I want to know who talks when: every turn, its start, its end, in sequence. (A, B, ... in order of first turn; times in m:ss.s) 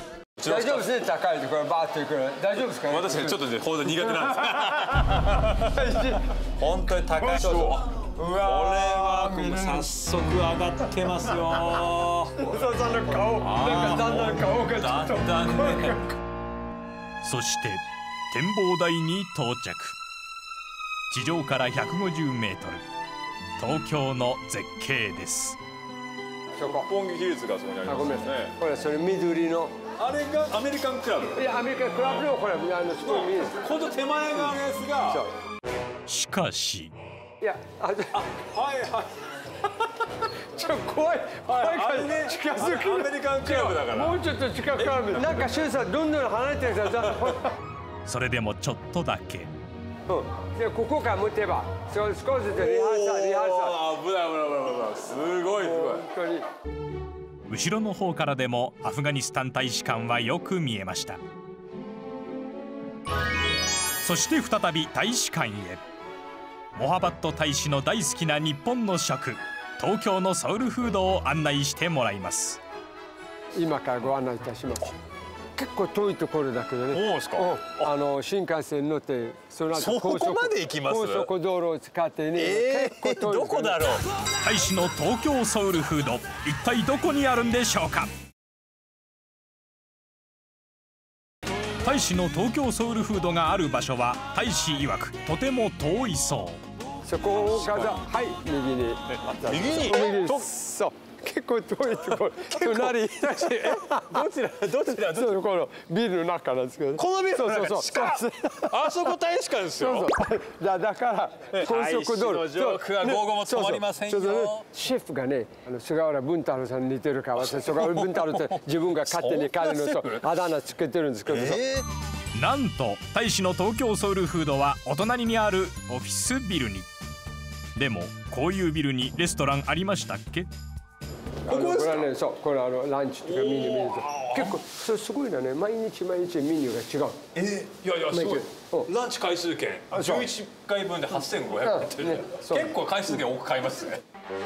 0:00.4-0:00.9 A
0:00.4-0:03.4 B
0:02.9-0:05.6 A
0:05.6-0:06.3 B
0:06.4-0:12.5 A
0:07.2-0:09.8 B
0:12.4-0:16.0 B
0:13.4-0:16.1 A
0:17.2-0:19.9 C
0:21.1-0:22.8 C
0:23.6-0:25.6 C
0:26.6-0:26.9 B
0:26.6-0:28.5 A
0:27.8-0:29.8 B
0:30.0-0:32.3 A
0:31.4-0:33.6 B
0:33.0-0:35.3 A
0:36.1-0:36.9 C
0:37.4-0:38.2 B
0:38.1-0:39.3 A
0:40.5-0:47.6 B
0:41.4-0:44.2 A
0:44.7-0:45.6 A
0:47.0-0:47.3 A
0:48.0-0:49.5 C
0:50.1-0:53.8 B
0:52.6-0:56.0 A
0:55.6-0:56.4 B
0:57.4-1:01.2 C
1:04.0-1:05.8 C
1:06.7-1:12.6 C
1:13.6-1:14.9 B
1:15.6-1:23.8 B
1:16.9-1:17.9 A
1:19.7-1:21.3 A
1:22.4-1:24.1 A
1:24.4-1:28.1 C
1:31.8-1:36.6 C
1:37.0-1:44.2 B
1:37.4-1:38.0 A
1:39.1-1:40.5 A
1:42.3-1:45.4 A
1:45.0-1:49.0 B
1:47.0-1:50.1 A
1:49.8-2:01.7 B
1:51.5-1:54.6 A
1:57.4-2:00.3 A
2:01.3-2:01.8 A
2:02.3-2:06.9 C
2:07.7-2:10.5 C
2:11.4-2:17.2 B
2:11.5-2:12.1 A
2:13.2-2:14.6 A
2:17.3-2:24.0 A
2:18.1-2:18.9 B
2:19.9-2:20.2 B
2:21.6-2:22.7 B